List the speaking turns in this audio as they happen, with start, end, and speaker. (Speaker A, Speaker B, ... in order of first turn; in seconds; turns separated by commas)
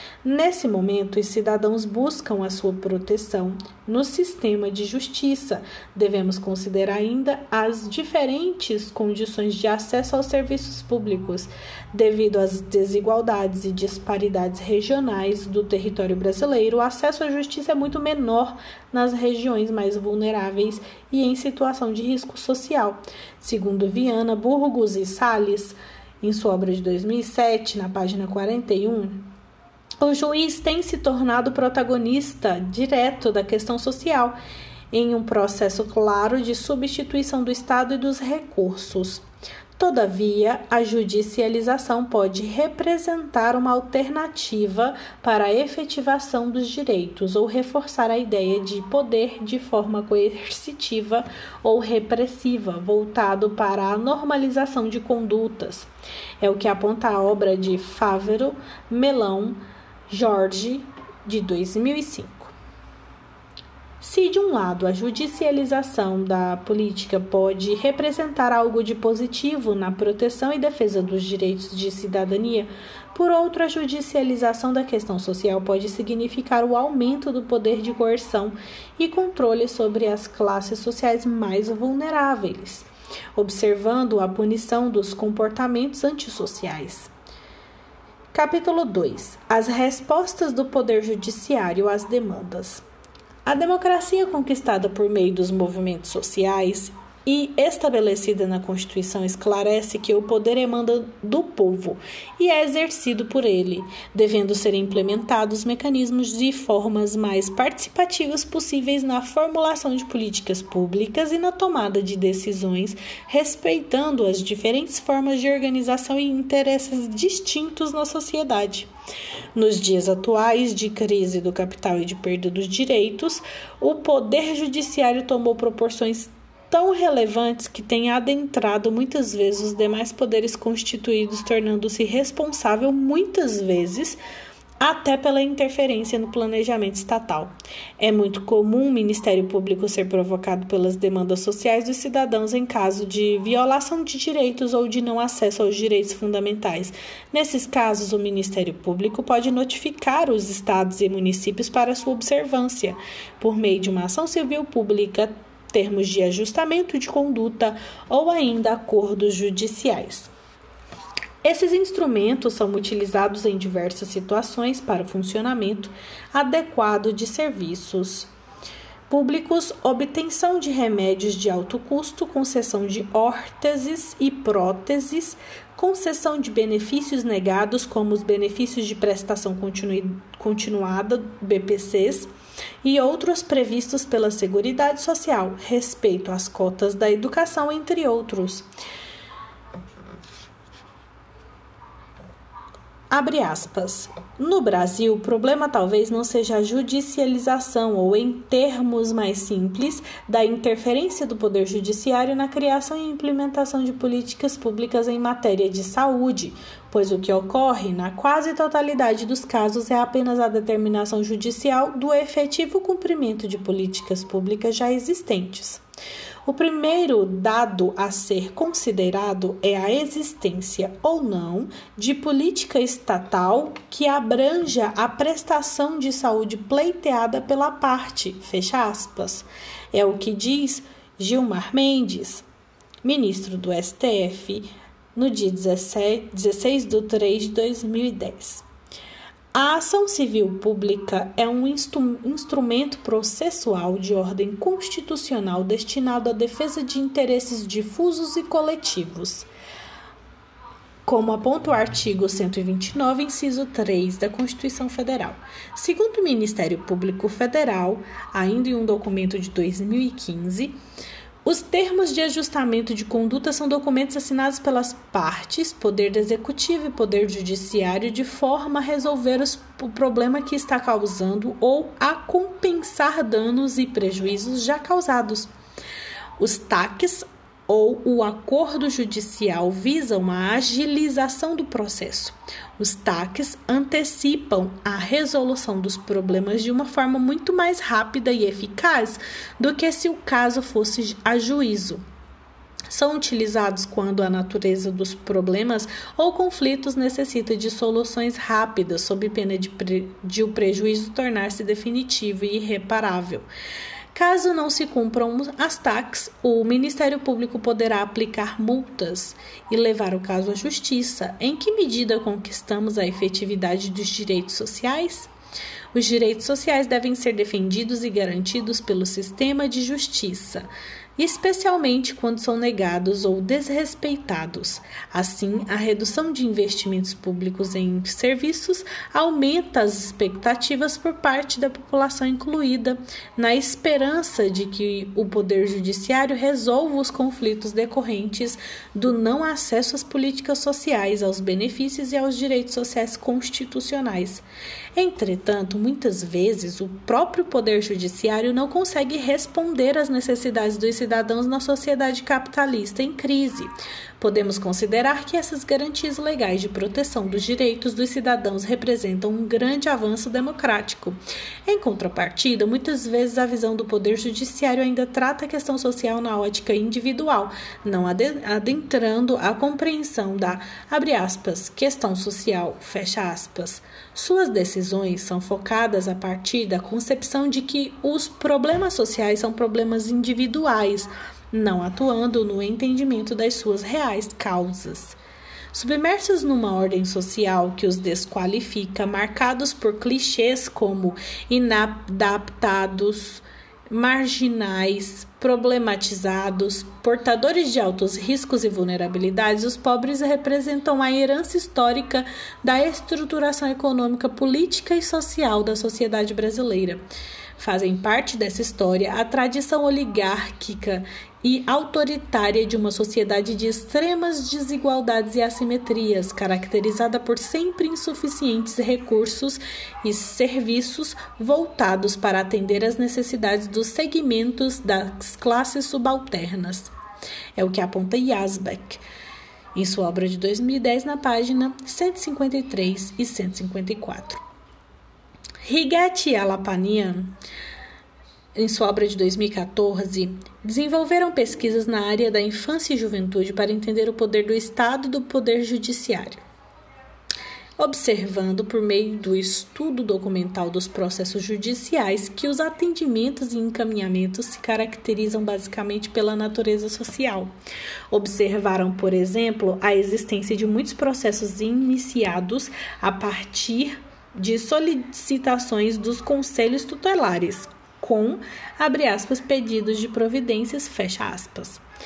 Speaker A: 0.2-29.3, Speaker A: 30.0-34.4, Speaker A: 34.9-39.2, Speaker A: 39.8-55.9, Speaker A: 56.4-59.6, Speaker A: 60.1-62.5, Speaker A: 64.0-87.1, Speaker A: 88.3-92.8, Speaker A: 93.5-118.9, Speaker A: 119.5-134.2, Speaker A: 134.8-160.3, Speaker A: 161.4-168.3, Speaker A: 169.1-182.3, Speaker A: 182.8-188.7, Speaker A: 193.1-215.8, Speaker A: 216.4-232.4, Speaker A: 233.0-238.6, Speaker A: 239.5-249.5, Speaker A: 251.1-260.8, Speaker A: 261.4-275.5, Speaker A: 276.4-292.0, Speaker A: 292.9-303.5, Speaker A: 304.1-315.3, Speaker A: 315.9-344.4, Speaker A: 344.9-385.2, Speaker A: 385.7-407.0, Speaker A: 407.6-426.9, Speaker A: 427.6-429.0, Speaker A: 429.7-434.4, Speaker A: 435.6-437.3, Speaker A: 438.6-446.4, Speaker A: 447.8-457.5, Speaker A: 458.1-471.8